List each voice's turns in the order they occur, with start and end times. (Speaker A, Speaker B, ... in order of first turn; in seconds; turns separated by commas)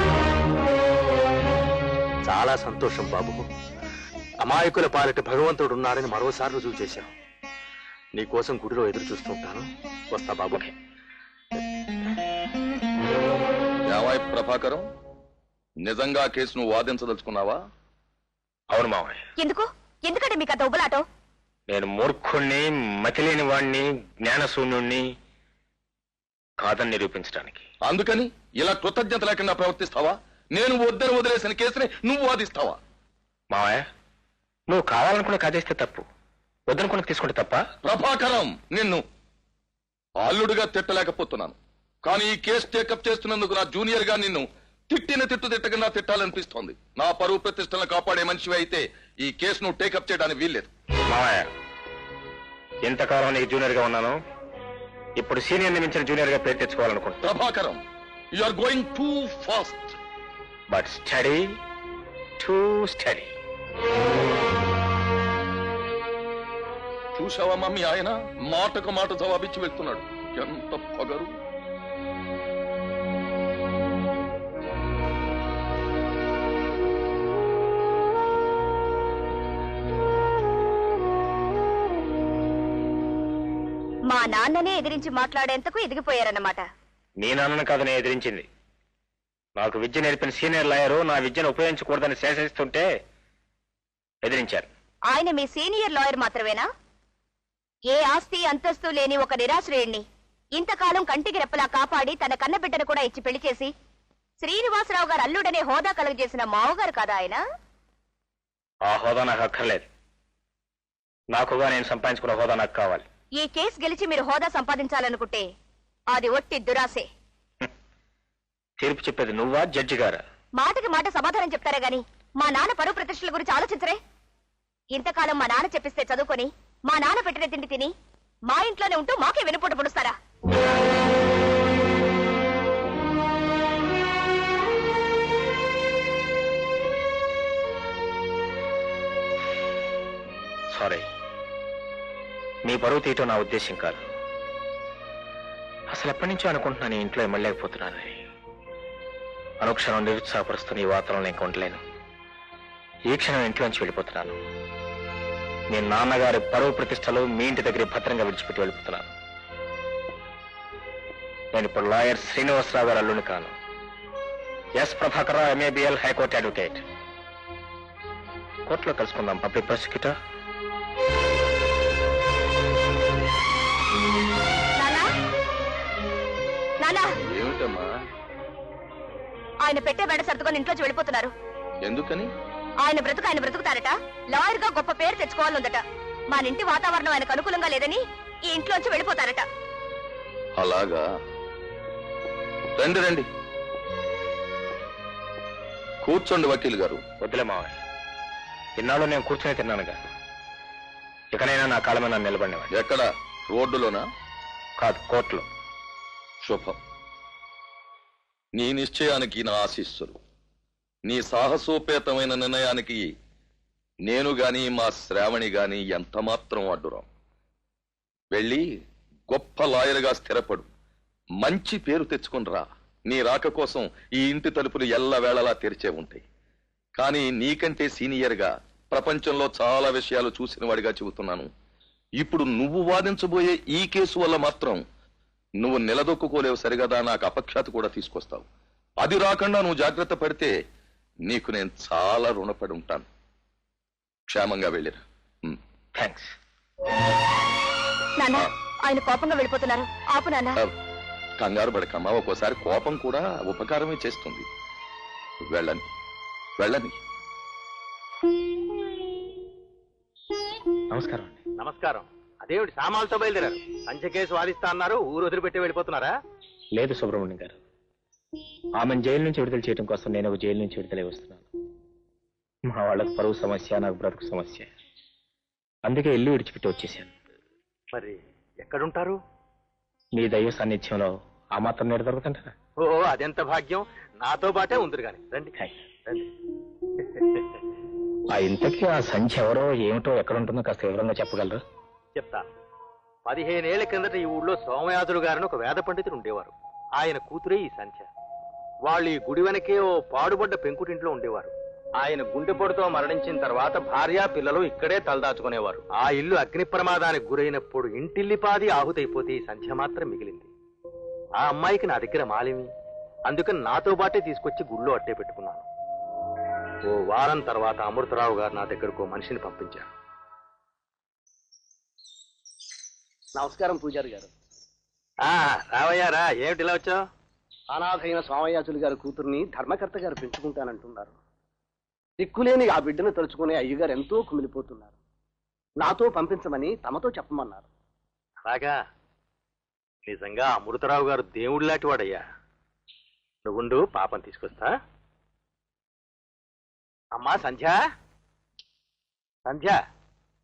Speaker A: 2.2-3.5, Speaker A: 4.4-7.1, Speaker A: 8.2-10.6, Speaker B: 13.9-14.8, Speaker B: 15.8-17.6, Speaker C: 18.7-19.2, Speaker D: 19.4-21.0, Speaker C: 21.7-25.0, Speaker C: 26.6-27.6, Speaker B: 27.8-32.8, Speaker C: 33.5-33.9, Speaker C: 34.7-36.0, Speaker C: 36.7-37.6, Speaker B: 37.8-39.0, Speaker B: 40.2-50.7, Speaker C: 51.1-51.5, Speaker C: 52.9-54.2, Speaker C: 55.2-57.2, Speaker B: 57.2-57.8, Speaker B: 58.4-60.0, Speaker C: 60.7-61.5, Speaker C: 62.4-63.3, Speaker B: 67.2-71.3, Speaker D: 84.1-86.7, Speaker C: 87.2-88.5, Speaker C: 89.6-92.9, Speaker C: 94.2-94.7, Speaker D: 95.1-96.7, Speaker D: 97.9-100.0, Speaker D: 100.5-103.7, Speaker D: 104.4-107.4, Speaker C: 108.9-109.8, Speaker C: 111.3-113.0, Speaker D: 113.4-115.5, Speaker D: 116.1-117.1, Speaker C: 118.8-120.2, Speaker D: 120.6-124.0, Speaker D: 124.9-127.9, Speaker D: 128.5-130.2, Speaker C: 140.7-141.1, Speaker C: 142.7-144.0, Speaker C: 145.9-148.2, Speaker C: 149.6-151.8, Speaker C: 153.1-154.4, Speaker C: 155.7-159.1, Speaker C: 161.5-163.5, Speaker C: 164.8-166.8, Speaker C: 168.7-170.1, Speaker D: 174.8-175.1, Speaker D: 176.8-177.1, Speaker B: 177.3-177.9, Speaker D: 179.6-181.3, Speaker B: 181.8-182.3, Speaker D: 182.8-189.4, Speaker B: 190.6-191.0, Speaker B: 192.8-193.3, Speaker B: 196.0-197.0, Speaker C: 197.2-197.8, Speaker C: 198.8-199.9, Speaker C: 201.3-202.7, Speaker B: 202.7-204.0, Speaker C: 204.8-205.4, Speaker B: 206.4-206.8, Speaker B: 208.6-210.2, Speaker B: 211.1-213.1, Speaker B: 214.1-217.1, Speaker B: 218.3-218.6, Speaker B: 219.3-220.7, Speaker B: 221.4-226.2, Speaker B: 227.0-231.5, Speaker B: 232.2-234.8, Speaker B: 235.6-238.5, Speaker B: 239.0-240.5, Speaker B: 241.3-243.1, Speaker B: 244.3-245.6, Speaker C: 245.9-246.3, Speaker D: 248.2-250.6, Speaker B: 251.4-254.4, Speaker B: 255.4-255.8, Speaker B: 256.6-257.0, Speaker C: 260.9-261.4, Speaker A: 261.6-266.2, Speaker C: 266.8-267.6, Speaker C: 268.8-271.5, Speaker C: 272.7-274.7, Speaker C: 275.8-277.1, Speaker A: 277.9-279.2, Speaker C: 280.1-282.5, Speaker A: 282.8-285.5, Speaker C: 288.3-291.6, Speaker A: 292.1-292.5, Speaker A: 293.2-298.1, Speaker A: 298.9-310.5, Speaker A: 311.4-312.7, Speaker A: 313.3-315.7, Speaker A: 316.9-319.9, Speaker E: 323.3-324.3, Speaker A: 325.2-327.0, Speaker E: 327.7-331.1, Speaker E: 332.2-334.9, Speaker E: 335.8-337.6, Speaker A: 338.4-338.8, Speaker A: 340.1-342.2, Speaker A: 343.4-344.7, Speaker A: 347.1-347.8, Speaker A: 349.4-349.8